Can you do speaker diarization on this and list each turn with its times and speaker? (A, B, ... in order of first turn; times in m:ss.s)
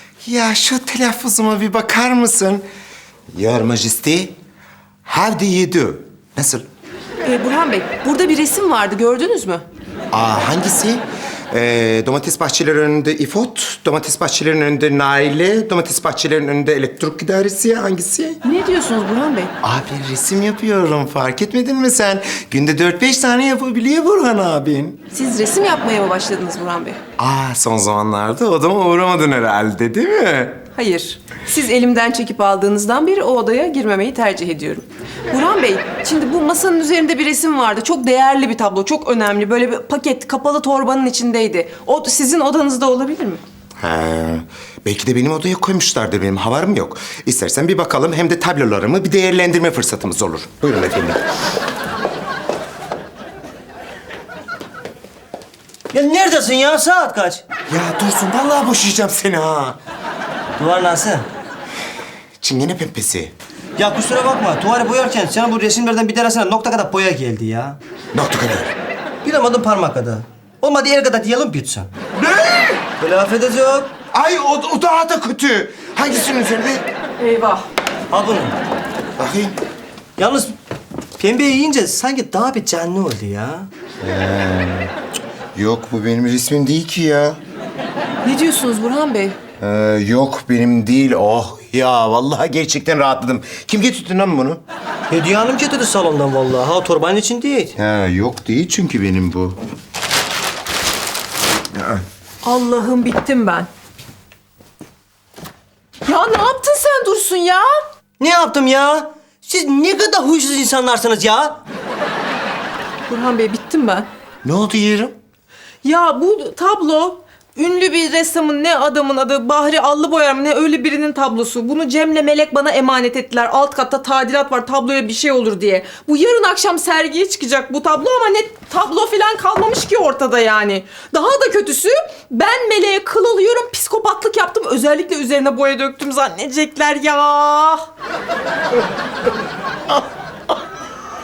0:00.2-0:02.6 A
0:03.3-0:04.3 A
0:05.0-0:06.6 A
0:07.2-0:09.6 B
0:10.1-0:18.4 A
0:18.4-0:19.5 B
0:19.6-0:25.0 A
0:25.1-0:27.0 B
0:27.2-0:30.6 A
0:30.7-0:43.4 B
0:43.8-0:51.2 A
0:55.9-0:57.4 C
0:57.7-0:59.8 A
1:00.6-1:01.3 C
1:02.4-1:03.3 A
1:03.8-1:07.8 C
1:08.1-1:08.7 A
1:09.2-1:11.9 C
1:12.1-1:12.8 A
1:13.0-1:13.9 C
1:14.1-1:16.8 A
1:17.2-1:17.6 B
1:18.1-1:18.6 C
1:19.2-1:19.6 A
1:20.2-1:20.5 C
1:21.2-1:23.7 C
1:24.0-1:24.9 A
1:25.5-1:27.4 A
1:28.2-1:29.4 B
1:29.6-1:34.6 A
1:35.1-1:37.7 C
1:37.8-1:39.6 A
1:41.7-1:42.0 A
1:42.4-1:43.7 B
1:46.0-1:47.7 B
1:48.2-1:51.6 C
1:53.1-1:54.1 B
1:54.4-1:55.1 A
1:55.8-2:17.8 B